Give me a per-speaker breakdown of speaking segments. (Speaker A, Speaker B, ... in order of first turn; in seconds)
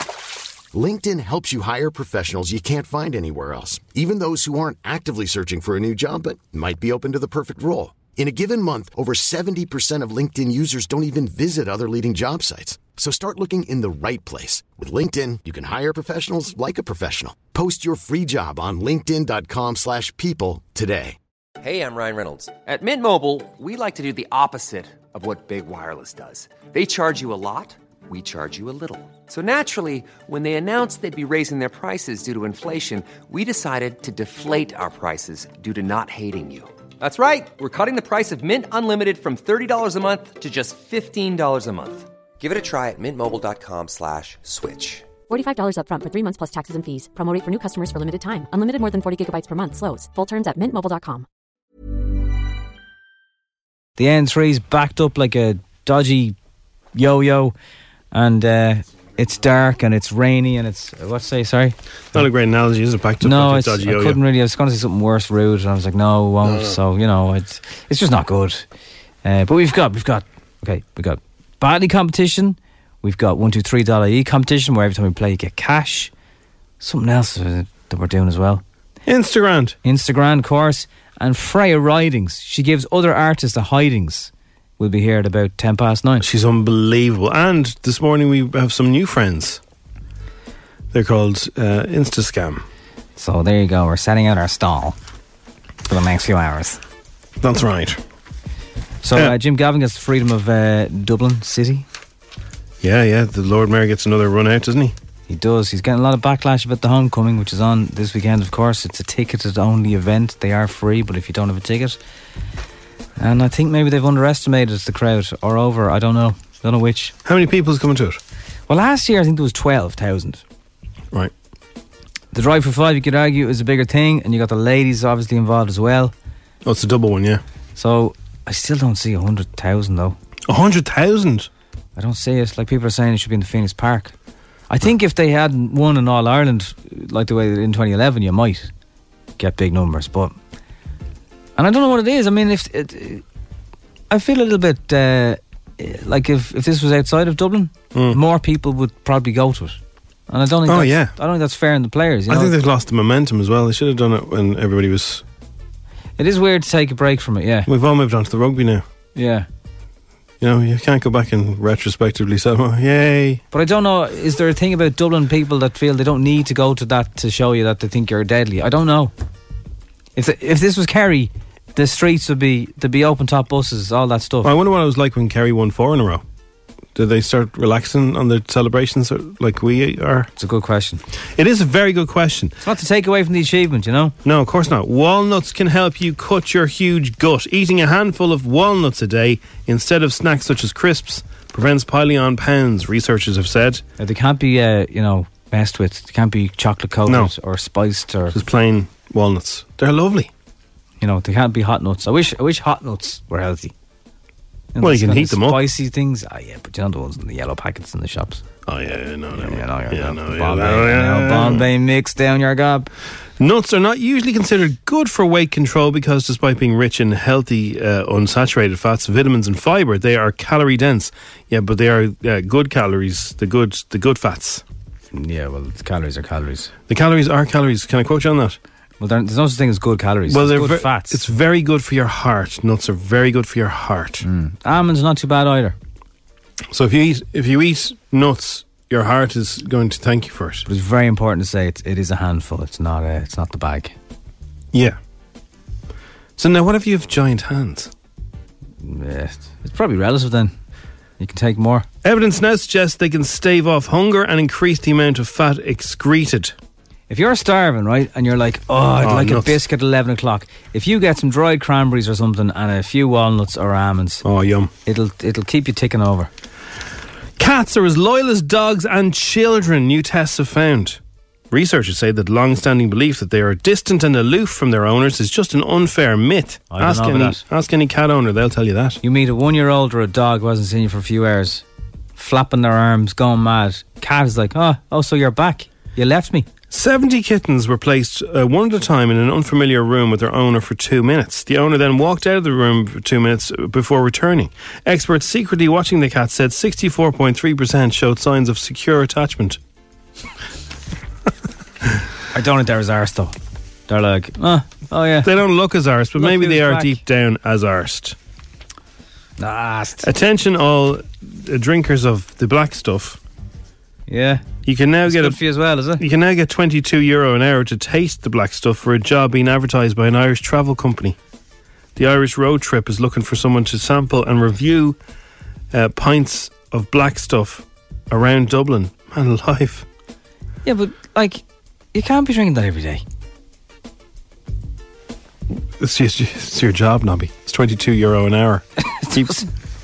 Speaker A: 0.7-21.2
Speaker B: 21.6-45.0
Speaker C: 45.3-51.2
Speaker D: 54.0-56.4, 56.9-57.5, 58.1-62.3, 63.2-68.6, 69.2-76.1, 76.8-78.6, 79.8-86.3, 93.2-95.0, 95.9-96.8, 99.0-101.8, 105.3-112.0, 113.2-117.1, 118.7-120.4, 122.3-126.1, 127.8-130.2, 131.9-134.1, 134.7-138.7, 139.4-140.3, 141.6-143.2, 144.1-152.6, 156.2-157.7, 159.1-159.4, 163.5-169.1, 170.2-174.5, 180.4-181.0, 182.6-184.2, 194.0-198.4, 201.0-203.7, 204.7-208.4, 209.3-212.9, 225.1-226.7, 229.0-231.2, 234.2-235.8, 240.7-243.9, 248.8-250.5, 251.2-251.9, 257.1-264.2, 264.8-266.3, 276.7-277.4, 279.0-281.6, 282.1-286.5, 302.3-303.4, 303.9-305.3, 306.2-307.0, 309.4-310.1, 314.1-314.5, 315.0-316.0, 330.6-333.0, 338.8-339.5
Speaker E: 62.1-64.2, 66.4-66.8, 79.0-79.8, 86.2-89.6, 90.9-92.6, 97.4-98.0, 102.8-104.9, 117.2-118.2, 126.6-127.4, 130.5-131.5, 147.9-148.2, 150.7-151.1, 152.3-155.2, 157.7-158.8, 160.4-163.4, 174.4-176.2, 176.9-180.3, 181.3-182.5, 184.2-193.8, 197.1-197.3, 198.3-200.3, 204.8-205.6, 208.7-211.7, 213.4-224.6, 226.9-228.6, 230.3-234.2, 236.7-240.7, 246.4-247.9, 252.0-256.5, 259.0-259.6, 264.2-264.7, 267.4-271.0, 271.5-279.0, 286.7-299.6, 305.2-308.1, 310.0-313.2, 314.6-315.4, 316.0-321.2, 321.9-324.9, 325.7-329.8, 335.8-339.4